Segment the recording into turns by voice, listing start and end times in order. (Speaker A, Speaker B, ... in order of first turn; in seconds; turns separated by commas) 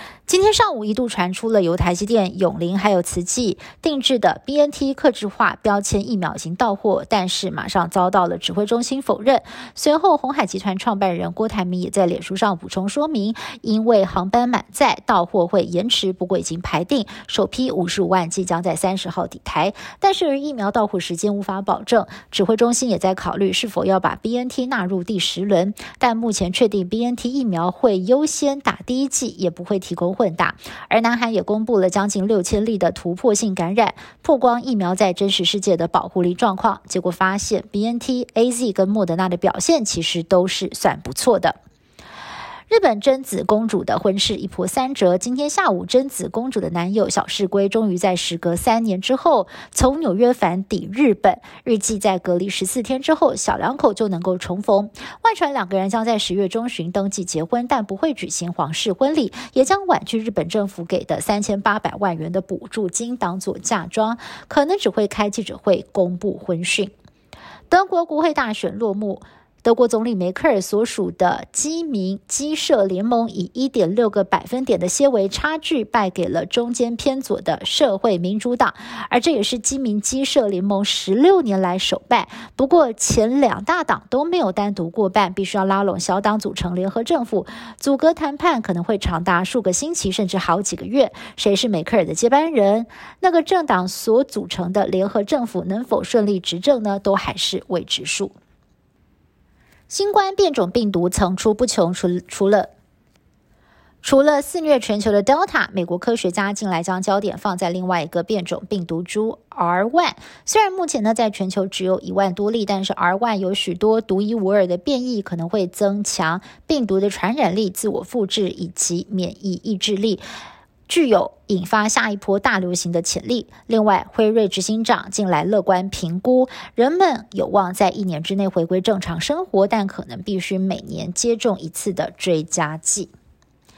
Speaker A: 0.3-41.5, Speaker A: 42.7-66.9, Speaker A: 67.7-98.3, Speaker A: 99.9-102.7, Speaker A: 104.0-120.2, Speaker A: 120.9-133.1